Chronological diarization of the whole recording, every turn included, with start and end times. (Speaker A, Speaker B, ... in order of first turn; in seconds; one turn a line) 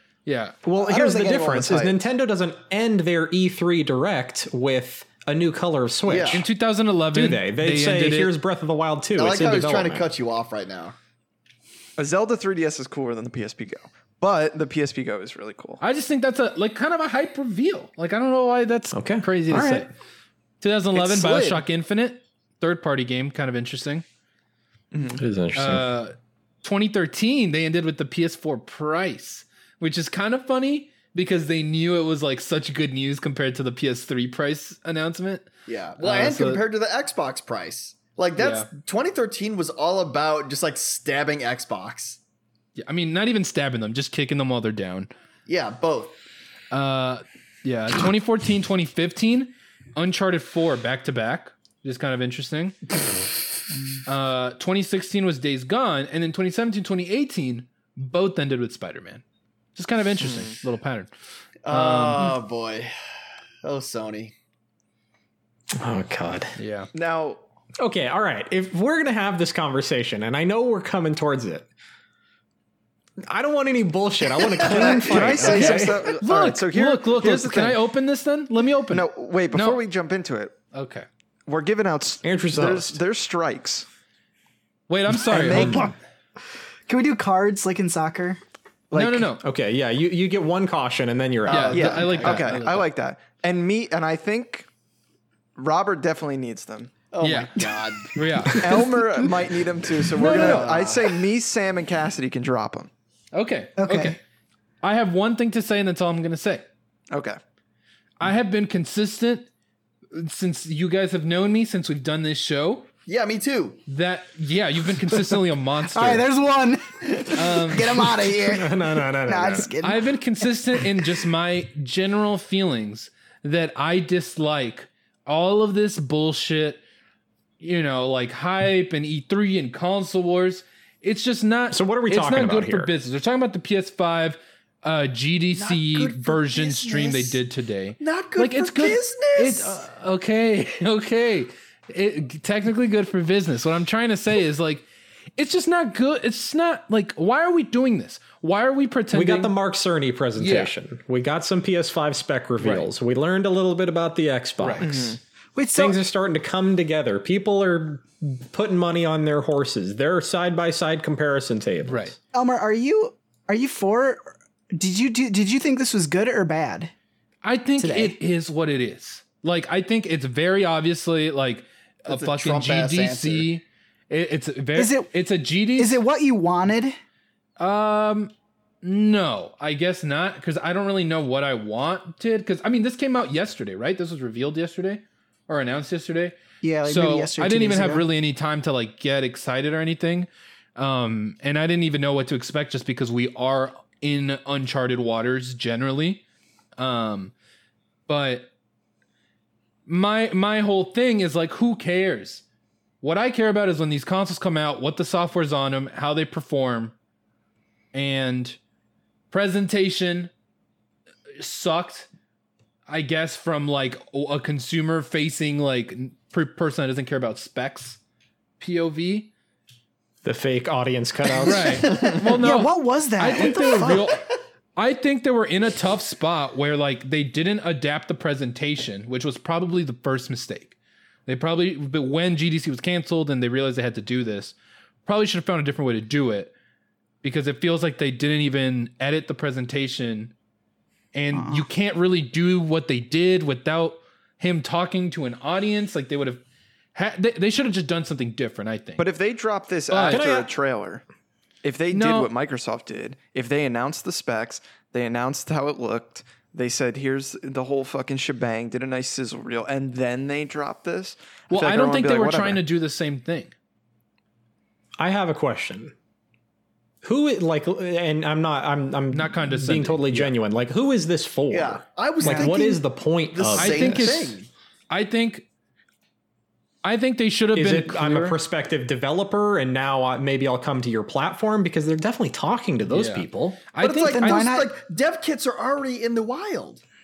Speaker A: 0.3-0.6
Speaker B: 0.6-6.5
Speaker C: 0.8-2.0
Speaker D: 6.0-6.5
Speaker A: 6.3-8.3
Speaker B: 7.1-10.1
Speaker D: 9.2-10.9
Speaker E: 12.0-15.8
Speaker A: 15.8-19.9
Speaker B: 18.9-19.9
Speaker A: 20.6-24.0
Speaker E: 20.9-21.6
Speaker E: 24.9-25.2
Speaker B: 25.1-25.8
Speaker A: 25.6-36.6
Speaker D: 35.7-42.2
Speaker A: 38.4-38.7
Speaker A: 42.8-45.1
Speaker D: 45.5-46.2
Speaker A: 46.7-52.8
Speaker A: 54.1-59.2
Speaker A: 59.8-61.1
Speaker E: 60.2-60.5
Speaker D: 61.6-62.9
Speaker A: 61.7-62.4
Speaker D: 63.6-64.3
Speaker B: 65.8-66.5
Speaker A: 66.6-66.9
Speaker E: 66.9-67.4
Speaker B: 67.8-71.7
Speaker B: 73.2-76.1
Speaker E: 74.6-77.8
Speaker A: 75.2-79.8
Speaker E: 78.9-80.5
Speaker A: 80.7-81.1
Speaker E: 81.5-83.9
Speaker B: 82.2-83.0
Speaker A: 84.9-85.9
Speaker E: 85.3-85.8
Speaker B: 85.4-85.9
Speaker C: 85.5-85.9
Speaker C: 86.9-88.4
Speaker C: 88.9-89.3
Speaker A: 88.9-89.4
Speaker B: 89.4-92.6
Speaker D: 91.5-92.4
Speaker A: 91.5-92.9
Speaker E: 91.7-94.7
Speaker E: 95.6-96.9
Speaker D: 97.1-98.2
Speaker A: 97.2-99.0
Speaker E: 98.6-102.9
Speaker A: 100.2-100.8
Speaker D: 100.3-101.1
Speaker A: 103.3-104.2
Speaker C: 103.8-104.2
Speaker A: 104.8-106.6
Speaker E: 107.1-107.4
Speaker A: 108.2-109.5
Speaker A: 110.1-112.9
Speaker D: 113.1-113.8
Speaker A: 113.9-116.3
Speaker C: 115.9-120.9
Speaker A: 117.3-118.1
Speaker B: 118.0-119.7
Speaker A: 119.8-126.8
Speaker A: 127.6-144.9
Speaker B: 131.7-132.9
Speaker D: 135.6-137.3
Speaker D: 138.0-139.8
Speaker A: 145.4-149.6
Speaker B: 149.1-155.2
Speaker A: 150.4-150.7
Speaker A: 152.6-152.9
Speaker A: 154.6-154.9
Speaker E: 154.8-155.2
Speaker C: 155.6-156.0
Speaker B: 155.7-162.2
Speaker A: 161.8-162.2
Speaker C: 162.3-166.9
Speaker A: 167.4-176.0
Speaker C: 167.8-168.2
Speaker D: 172.1-173.5
Speaker C: 174.8-175.1
Speaker C: 175.8-177.0
Speaker A: 177.6-178.3
Speaker A: 178.8-196.2
Speaker C: 186.6-188.1
Speaker A: 196.8-197.3
Speaker A: 198.1-198.5
Speaker A: 199.9-202.4
Speaker A: 203.0-206.9
Speaker A: 207.9-208.6
Speaker A: 209.3-210.3
Speaker A: 211.4-212.1
Speaker A: 212.9-218.0
Speaker A: 218.6-219.3
Speaker B: 220.2-222.0
Speaker A: 221.4-230.8
Speaker D: 221.5-222.3
Speaker C: 222.4-224.1
Speaker D: 223.6-224.1
Speaker A: 231.3-234.6
Speaker A: 235.1-236.5
Speaker A: 237.2-240.3
Speaker A: 241.1-246.4
Speaker C: 241.3-241.7
Speaker A: 246.9-249.1
Speaker E: 249.0-251.0
Speaker A: 249.9-250.2
Speaker B: 250.1-250.5
Speaker E: 251.6-262.6
Speaker A: 251.9-252.3
Speaker A: 261.5-263.5
Speaker B: 265.0-265.9
Speaker B: 267.0-274.2
Speaker A: 269.1-270.3
Speaker D: 271.5-274.5
Speaker C: 272.2-272.5
Speaker A: 273.6-274.4
Speaker A: 274.9-275.5
Speaker A: 276.8-278.4
Speaker B: 277.5-283.6
Speaker A: 282.9-284.6
Speaker D: 283.8-286.8
Speaker C: 284.0-284.7